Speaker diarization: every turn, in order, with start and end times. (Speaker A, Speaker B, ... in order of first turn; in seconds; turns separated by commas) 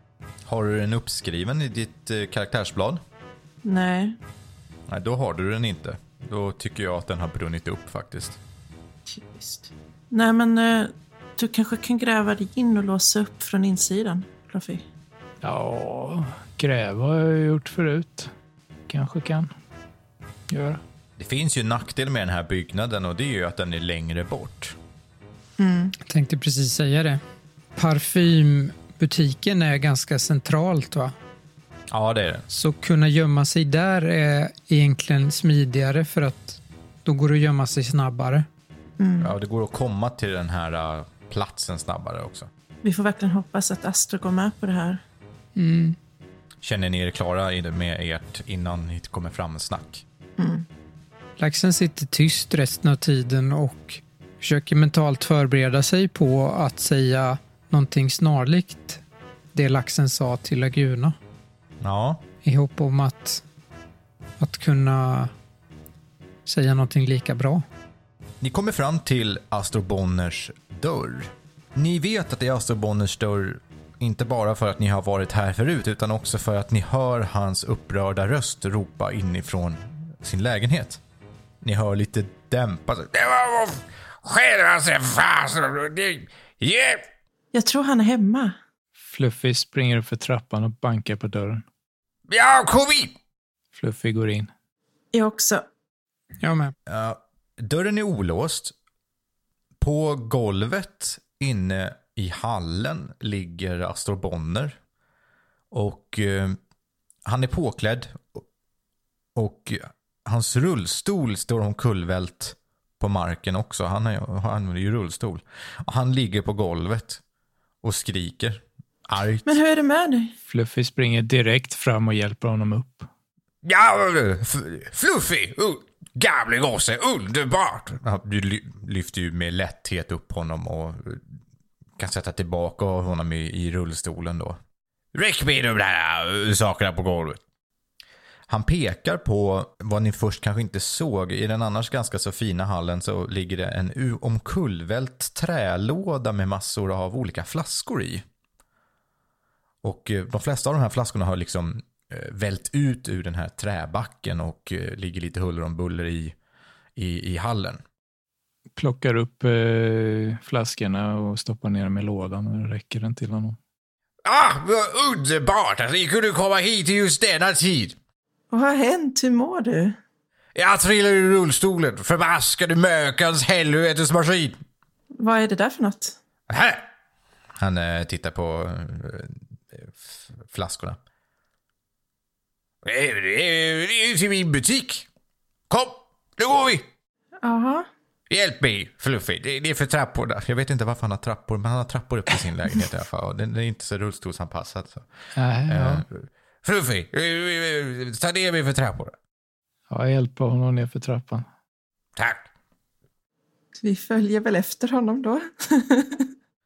Speaker A: 0.5-3.0, Speaker B: 3.6-4.2, Speaker A: 4.9-8.4, Speaker B: 9.1-14.8, Speaker C: 15.4-18.3, Speaker C: 18.9-19.5, Speaker C: 20.5-20.8, Speaker A: 21.2-24.8, Speaker B: 25.6-25.9, Speaker D: 26.0-27.2, Speaker D: 27.8-31.1, Speaker A: 31.9-32.5, Speaker D: 32.5-38.5, Speaker B: 39.0-39.3, Speaker A: 39.2-42.5, Speaker B: 42.8-45.0, Speaker D: 45.5-46.0, Speaker A: 46.6-50.0, Speaker B: 50.4-50.6, Speaker D: 51.4-59.0, Speaker D: 59.5-61.1, Speaker A: 61.8-62.2, Speaker D: 62.4-63.4, Speaker D: 64.4-65.3, Speaker D: 66.5-67.6, Speaker A: 68.4-81.0, Speaker A: 81.6-87.0, Speaker B: 87.5-88.5, Speaker C: 89.0-91.6, Speaker A: 92.3-93.1, Speaker C: 93.7-94.5, Speaker B: 95.1-95.6, Speaker D: 96.4-96.7, Speaker A: 96.9-98.7, Speaker A: 99.8-104.8, Speaker A: 105.7-106.6, Speaker A: 107.2-108.4, Speaker A: 109.3-117.2, Speaker A: 117.8-119.6, Speaker B: 119.5-120.3, Speaker C: 120.5-123.1, Speaker A: 123.6-131.2, Speaker A: 132.0-134.6, Speaker A: 135.1-137.4, Speaker A: 138.5-148.2, Speaker A: 149.8-156.3, Speaker A: 156.9-157.8, Speaker C: 158.8-163.6, Speaker A: 164.2-167.9, Speaker B: 168.5-170.0, Speaker A: 170.5-174.6, Speaker B: 175.2-176.2, Speaker A: 176.5-176.8, Speaker A: 177.6-181.0, Speaker A: 182.8-185.1, Speaker A: 185.7-186.8, Speaker B: 187.4-187.8, Speaker A: 188.3-195.1, Speaker C: 195.3-196.0, Speaker A: 195.7-199.1, Speaker C: 199.9-201.4, Speaker A: 202.2-202.5, Speaker B: 203.8-206.3